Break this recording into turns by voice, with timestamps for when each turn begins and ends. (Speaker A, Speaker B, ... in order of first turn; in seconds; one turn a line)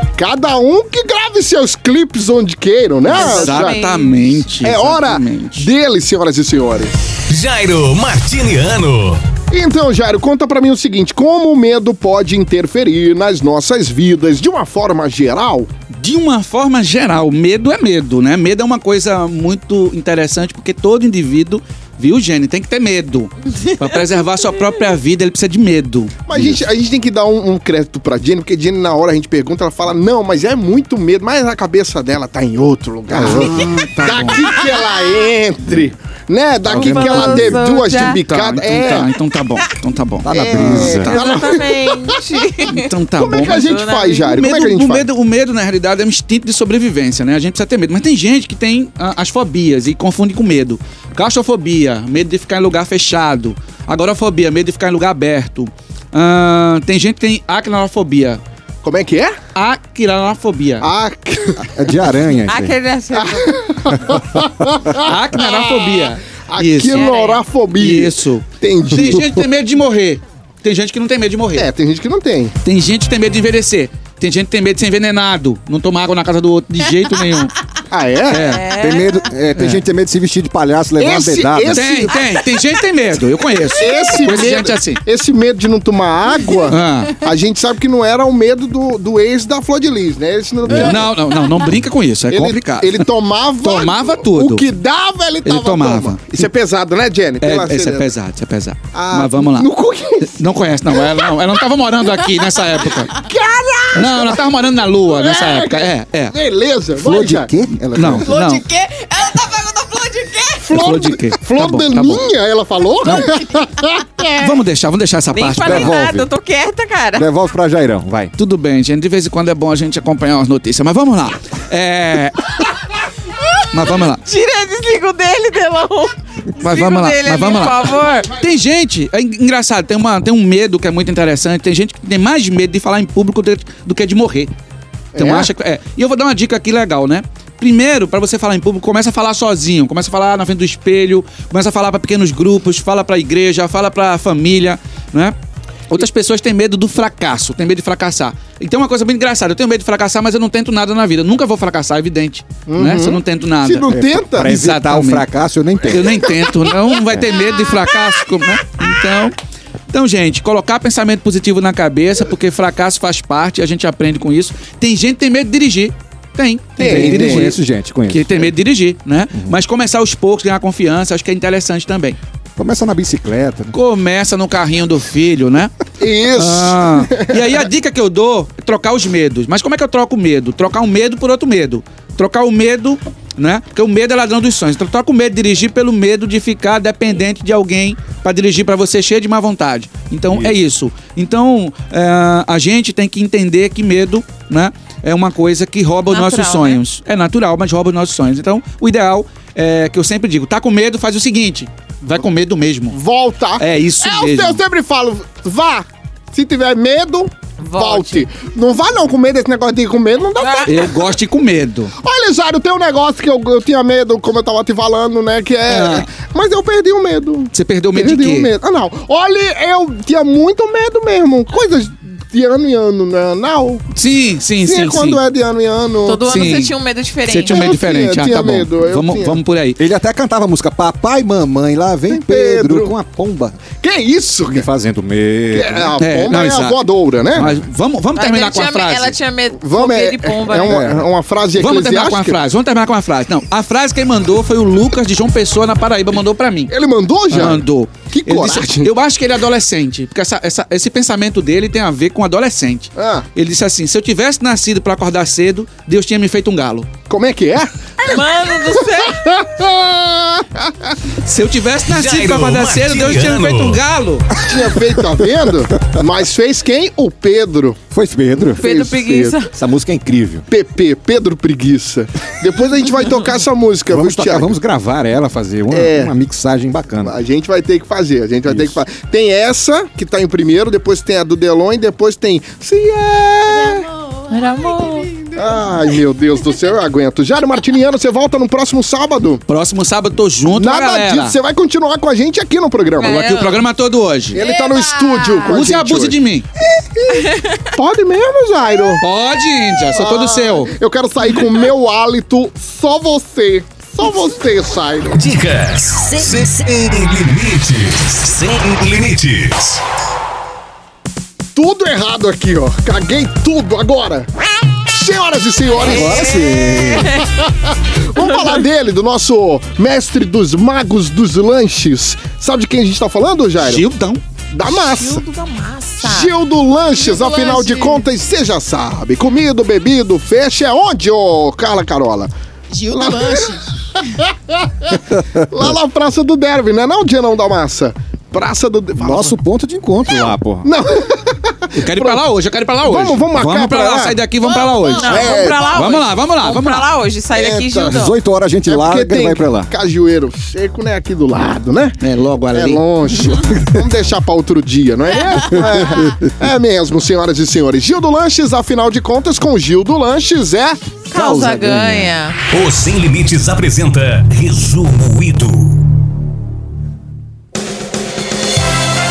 Speaker A: 0.2-3.8
Speaker B: 3.1-4.4
Speaker C: 3.1-5.7
Speaker A: 4.6-7.1
Speaker D: 7.3-9.2
Speaker A: 9.5-15.7
Speaker C: 15.9-26.5
Speaker A: 26.3-39.1
Speaker E: 33.1-34.4
Speaker C: 33.2-34.4
Speaker E: 36.6-37.6
Speaker B: 36.8-38.2
Speaker C: 38.3-41.4
Speaker E: 40.2-41.1
Speaker A: 40.3-42.2
Speaker B: 41.1-42.9
Speaker C: 42.7-43.7
Speaker A: 43.2-45.1
Speaker B: 43.5-44.4
Speaker C: 44.2-58.4
Speaker A: 58.8-59.4
Speaker C: 59.5-60.9
Speaker A: 60.8-61.7
Speaker E: 61.7-62.8
Speaker B: 62.5-63.6
Speaker A: 63.1-65.8
Speaker C: 65.0-67.1
Speaker A: 66.5-69.2
Speaker B: 66.9-67.5
Speaker C: 67.7-71.7
Speaker E: 68.9-69.4
Speaker A: 71.5-72.5
Speaker C: 72.6-77.5
Speaker A: 77.9-78.6
Speaker C: 78.3-78.6
Speaker B: 78.3-79.2
Speaker E: 78.7-82.1
Speaker C: 79.6-79.8
Speaker A: 81.0-82.2
Speaker C: 81.7-85.0
Speaker A: 83.7-91.1
Speaker C: 86.7-87.2
Speaker E: 90.7-91.0
Speaker C: 90.7-93.1
Speaker A: 92.3-98.1
Speaker C: 93.6-94.7
Speaker C: 95.4-96.4
Speaker C: 97.4-103.2
Speaker A: 98.9-100.3
Speaker A: 103.2-104.5
Speaker C: 103.9-106.3
Speaker A: 105.0-107.5
Speaker E: 107.0-108.3
Speaker C: 107.9-108.6
Speaker F: 108.2-110.8
Speaker A: 110.6-114.5
Speaker C: 110.8-112.2
Speaker C: 113.0-113.3
Speaker C: 114.4-116.0
Speaker B: 115.3-117.3
Speaker E: 115.6-116.3
Speaker E: 117.2-118.3
Speaker C: 118.4-122.7
Speaker C: 123.7-124.2
Speaker B: 124.2-128.3
Speaker C: 126.6-134.5
Speaker A: 135.2-135.5
Speaker C: 135.2-145.3
Speaker C: 145.9-153.9
Speaker A: 152.7-154.5
Speaker E: 153.9-156.3
Speaker C: 154.4-155.2
Speaker C: 155.8-159.4
Speaker C: 159.9-167.6
Speaker A: 166.8-167.5
Speaker E: 166.8-168.5
Speaker C: 168.1-172.2
Speaker E: 169.3-169.6
Speaker E: 172.6-173.8
Speaker C: 173.7-175.7
Speaker A: 176.0-177.4
Speaker C: 176.4-203.0
Speaker E: 190.3-190.5
Speaker B: 196.1-196.8
Speaker A: 202.9-211.1
Speaker C: 203.6-204.6
Speaker B: 207.6-208.3
Speaker B: 210.4-210.9
Speaker C: 210.7-211.9
Speaker A: 212.0-223.8
Speaker C: 215.7-216.1
Speaker C: 217.5-218.5
Speaker C: 224.0-225.2
Speaker A: 224.6-226.7
Speaker B: 226.0-227.7
Speaker C: 226.3-226.7
Speaker C: 227.2-229.8
Speaker A: 227.5-229.4
Speaker E: 229.8-233.6
Speaker A: 232.1-232.9
Speaker A: 233.8-234.7
Speaker E: 234.5-236.0
Speaker A: 235.5-237.5
Speaker C: 236.0-236.8
Speaker C: 237.3-239.2
Speaker B: 238.2-240.8
Speaker A: 239.6-242.4
Speaker E: 240.7-241.1
Speaker C: 241.6-246.7
Speaker A: 246.7-248.9
Speaker C: 247.3-256.9
Speaker A: 253.0-253.2
Speaker A: 257.1-258.2
Speaker B: 258.0-259.2
Speaker A: 259.1-261.0
Speaker C: 261.2-264.3
Speaker D: 261.9-263.8
Speaker A: 264.4-267.8
Speaker E: 267.9-268.7
Speaker A: 268.4-269.4
Speaker B: 268.6-269.6
Speaker E: 269.5-270.5
Speaker A: 270.5-274.6
Speaker E: 273.9-277.1
Speaker A: 275.7-276.1
Speaker A: 277.0-283.9
Speaker E: 278.5-278.8
Speaker F: 283.5-285.9
Speaker B: 284.3-285.1
Speaker A: 285.4-289.4
Speaker C: 289.5-291.4
Speaker A: 290.5-293.3
Speaker B: 293.0-293.6
Speaker C: 293.0-294.4
Speaker F: 294.3-295.6
Speaker A: 294.3-296.2
Speaker C: 295.5-296.5
Speaker A: 297.0-299.0
Speaker B: 297.1-297.7
Speaker C: 299.0-300.8
Speaker A: 299.9-305.2
Speaker D: 305.1-309.8
Speaker A: 311.6-314.3
Speaker A: 314.9-316.4
Speaker E: 315.8-317.1
Speaker B: 316.1-317.2
Speaker A: 317.0-323.8
Speaker C: 323.6-324.2
Speaker A: 324.5-325.2
Speaker B: 324.7-326.3
Speaker A: 326.0-332.3
Speaker F: 327.0-328.0
Speaker F: 332.7-333.7
Speaker A: 332.9-333.6
Speaker A: 334.2-339.4
Speaker E: 339.0-340.7
Speaker A: 340.6-342.2
Speaker C: 341.8-346.9
Speaker A: 342.8-344.2
Speaker F: 344.8-345.2
Speaker B: 344.9-348.1
Speaker A: 345.0-345.7
Speaker A: 347.3-348.0
Speaker E: 347.9-349.7
Speaker A: 348.7-352.0
Speaker C: 352.0-352.8
Speaker A: 352.5-361.0
Speaker E: 355.6-356.1
Speaker B: 361.1-362.4
Speaker E: 361.1-362.1
Speaker D: 362.5-365.8